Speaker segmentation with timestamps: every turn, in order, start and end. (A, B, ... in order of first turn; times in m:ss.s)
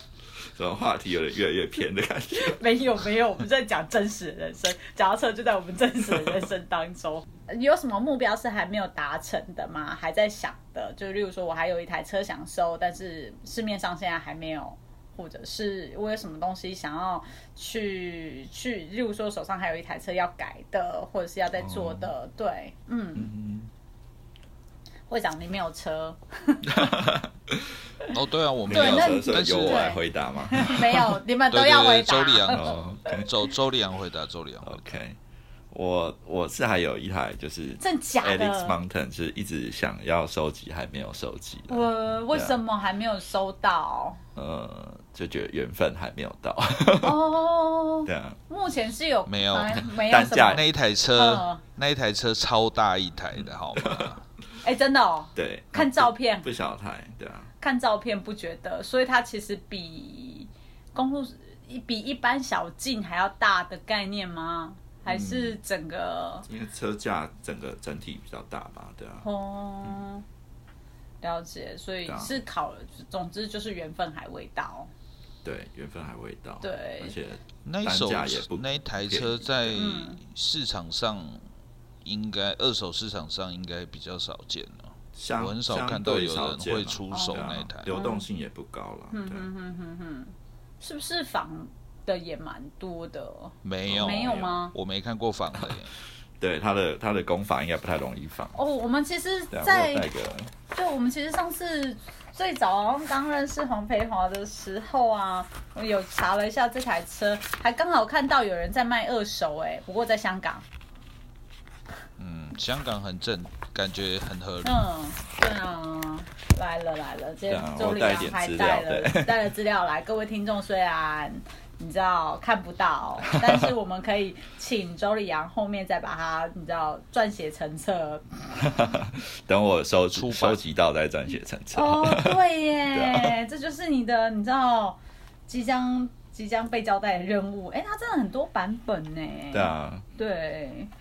0:00.5-0:02.6 A
0:02.4-0:23.3 B
0:21.6-0:22.1 A
0:23.2-0:23.7 A
0:25.1-0:26.9 B
0:26.6-0:27.7 A
0:28.1-0:29.9 C
0:28.7-0:31.0 A
0:28.7-0:32.7 B
0:31.5-0:34.8 C
0:32.5-0:33.3 A
0:34.6-0:35.2 A
0:35.7-0:42.6 A
0:37.8-0:38.8 B
0:41.7-0:44.2 B
0:44.4-0:47.2 A
0:47.0-0:50.6 B
0:48.0-0:48.4 A
0:49.3-0:49.8 C
0:49.8-0:50.6 A
0:50.5-0:54.2 C
0:51.1-0:51.6 B
0:53.4-0:54.1 A
0:54.6-0:56.5 B
0:55.3-0:57.5 A
0:57.6-1:06.4 B
1:05.1-1:05.6 A
1:06.4-1:09.2 A
1:09.2-1:10.2 B
1:11.2-1:14.9 B
1:12.1-1:12.4 A
1:15.4-1:19.4 A
1:16.6-1:17.2 B
1:17.6-1:21.4 C
1:19.7-1:20.2 B
1:22.0-1:27.9 C
1:25.1-1:29.5 A
1:27.1-1:28.2 B
1:29.1-1:34.7 B
1:33.6-1:35.9 C
1:33.9-1:34.5 A
1:36.4-1:38.6 A
1:38.5-1:40.1 B
1:39.5-1:40.5 A
1:40.7-1:50.6 B
1:52.2-1:54.8 C
1:54.6-2:08.3 B
1:57.5-1:59.4 A
2:03.5-2:03.7 A
2:08.6-2:12.4 A
2:10.1-2:10.6 C
2:11.7-2:20.9 B
2:12.9-2:13.4 A
2:19.5-2:20.0 A